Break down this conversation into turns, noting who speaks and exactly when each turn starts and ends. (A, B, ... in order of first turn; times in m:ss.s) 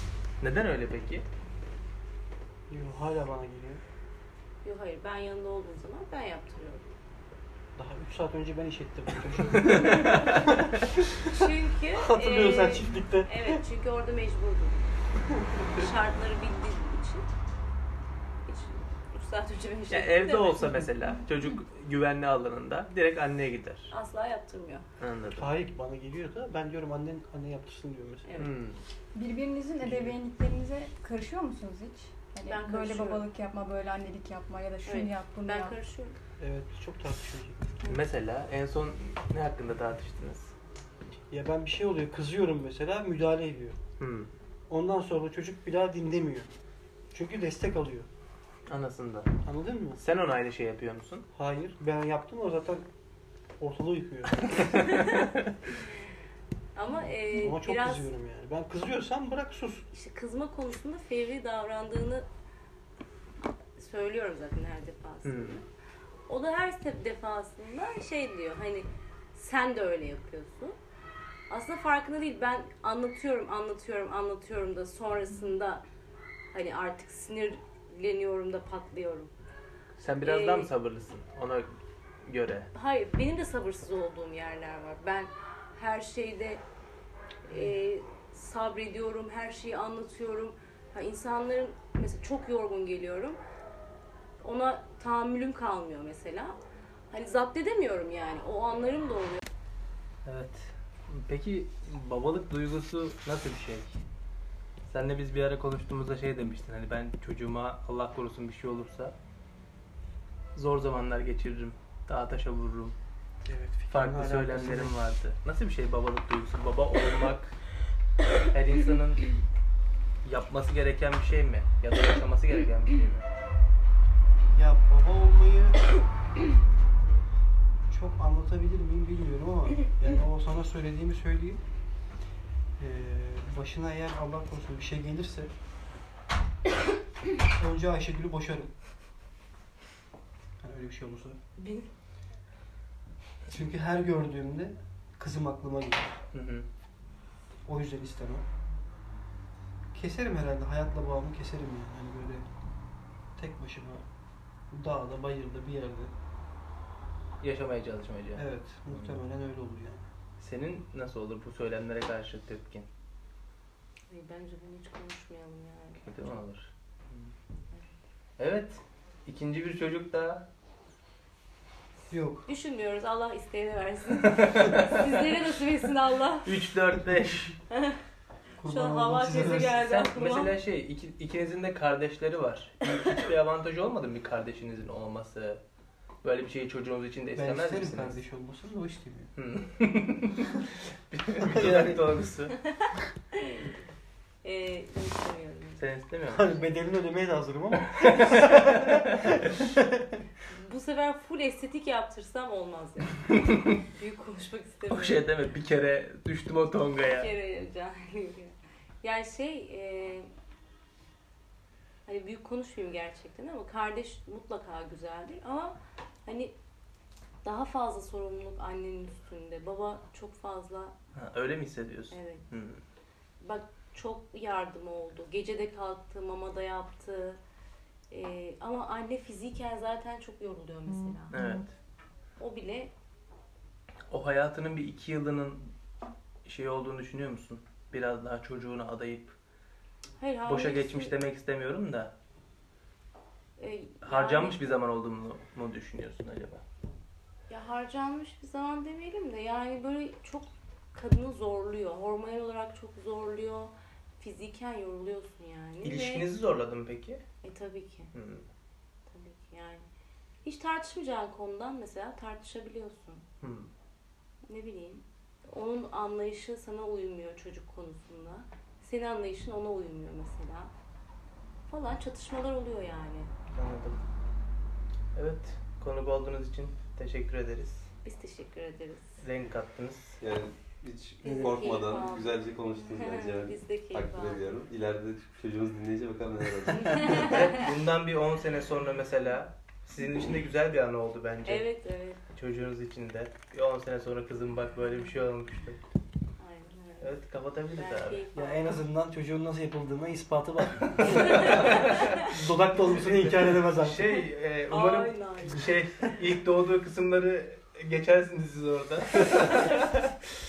0:00.4-0:01.3 A
0:02.7-0:03.8 B
0:04.6-0:06.8 C
0:07.8-0:13.6 B
0:11.3-0:14.8 C
0:15.6-0:17.3 C
0:18.5-0:20.9 C
0:19.9-0:23.9 A
0:23.9-0:24.8 C
0:25.0-0:25.5 A
0:25.4-0:28.3 B
0:28.2-0:28.5 C
0:28.4-0:28.8 A
0:29.1-0:35.8 D
0:29.8-0:30.2 B
0:32.4-0:33.2 C
0:34.8-0:36.2 C
0:36.4-0:37.6 B
0:37.8-0:40.5 A
0:41.3-0:43.8 B
0:44.0-0:44.3 A
0:44.7-0:46.5 B
0:47.1-0:48.1 B
0:48.7-0:49.3 A
0:49.4-0:50.0 B
0:50.0-0:51.2 A
0:51.3-0:52.8 B
0:53.6-0:55.0 B
0:54.7-0:55.3 C
0:56.8-0:58.1 C
0:57.3-0:59.9 B
0:59.9-1:02.3 C
1:03.8-1:05.6 C
1:05.2-1:05.6 A
1:06.3-1:10.8 C
1:11.5-1:15.8 C
1:16.5-1:19.3 C
1:20.0-1:21.7 A
1:20.2-1:20.7 C
1:22.2-1:22.7 A
1:22.7-1:26.6 C
1:27.5-1:33.4 C
1:34.4-1:36.6 C
1:37.1-1:39.4 C
1:40.2-1:44.0 A
1:44.9-1:49.1 A
1:50.6-1:53.0 A
1:53.4-1:55.0 B
1:53.9-1:57.6 A
1:58.5-1:59.3 A
2:00.2-2:03.3 A
2:04.5-2:05.8 B
2:07.9-2:11.6 B
2:12.8-2:15.5 B
2:17.5-2:18.7 B
2:20.6-2:21.4 B
2:21.6-2:21.9 C
2:23.5-2:26.2 B
2:26.3-2:26.6 A
2:27.6-2:28.4 B
2:29.9-2:32.4 B
2:33.4-2:34.0 B
2:34.7-2:36.1 B
2:37.4-2:39.2 A
2:38.4-2:40.0 B
2:40.4-2:42.9 A
2:44.1-2:46.1 C
2:46.0-2:47.3 A
2:48.4-2:50.4 A
2:52.1-2:52.5 B
2:52.5-2:56.5 C
2:54.2-2:55.0 A
2:56.4-2:57.6 A
2:57.7-2:58.0 C
2:58.6-2:59.8 B
2:58.6-3:00.5 C
2:59.6-3:05.6 A
3:06.2-3:08.2 A
3:07.3-3:09.3 B
3:09.4-3:12.6 A
3:11.4-3:12.1 B
3:12.6-3:13.7 C
3:14.4-3:15.8 C
3:15.8-3:16.5 A
3:16.3-3:20.2 B
3:18.0-3:19.4 A
3:20.5-3:25.2 C
3:24.9-3:27.3 A
3:27.0-3:30.3 C
3:32.1-3:36.6 C
3:37.4-3:41.0 C
3:41.1-3:42.8 A
3:42.1-3:42.4 C
3:43.4-3:47.4 C
3:48.1-3:51.4 C
3:51.3-3:51.6 D
3:51.3-3:51.7 A
3:52.4-3:52.9 C
3:54.1-3:55.7 A
3:56.4-3:59.3 A
4:00.2-4:01.1 C
4:00.5-4:02.1 A
4:03.6-4:04.6 C
4:04.0-4:06.6 A
4:07.5-4:16.3 C
4:15.8-4:17.2 A
4:17.4-4:18.1 C
4:18.1-4:18.4 A
4:19.1-4:19.9 C
4:20.4-4:23.2 C
4:23.4-4:23.7 A
4:24.5-4:30.7 C
4:31.7-4:33.3 C
4:33.5-4:34.0 A
4:35.1-4:37.9 A
4:38.0-4:39.2 C
4:39.2-4:40.2 A
4:40.2-4:47.4 E
4:41.2-4:44.5 C
4:46.8-4:47.6 C
4:47.0-4:51.6 A
4:51.4-4:52.2 C
4:52.3-4:55.8 A
4:56.4-4:57.1 C
4:57.0-4:58.2 A
4:57.7-4:58.7 C
4:58.3-5:04.2 B
5:01.0-5:09.9 A
5:01.2-5:02.2 C
5:04.7-5:05.7 C